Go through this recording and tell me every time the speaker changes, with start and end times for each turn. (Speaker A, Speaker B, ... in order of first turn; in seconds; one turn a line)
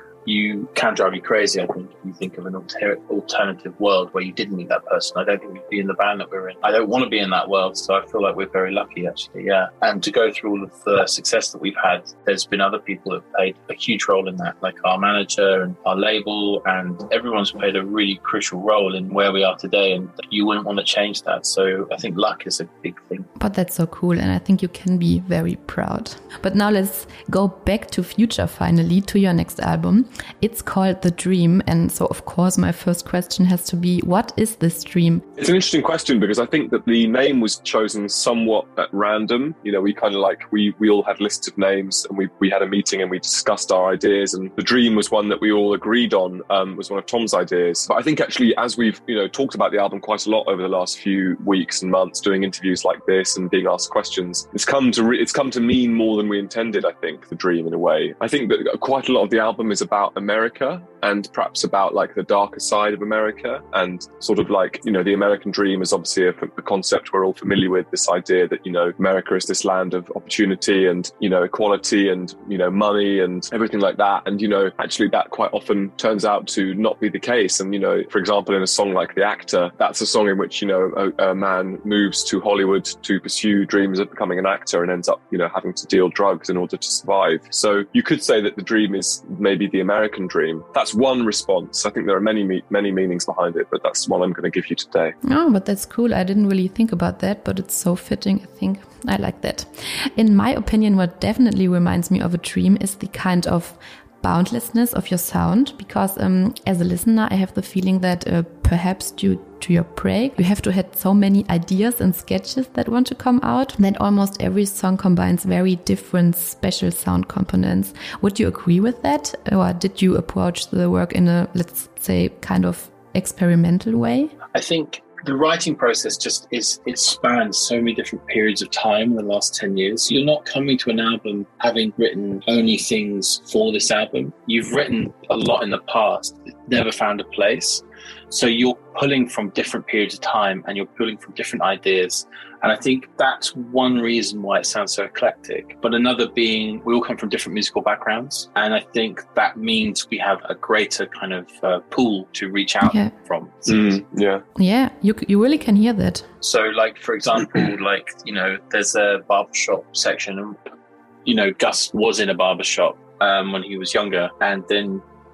Speaker A: 0.2-23.3
Speaker B: 23.4-35.2
Speaker C: 35.4-95.1
Speaker B: 95.3-124.3
Speaker A: 124.5-154.0
Speaker B: 152.8-153.1
Speaker C: 153.7-154.4
Speaker B: 154.6-156.2
Speaker A: 156.4-160.6
Speaker A: 161.2-165.0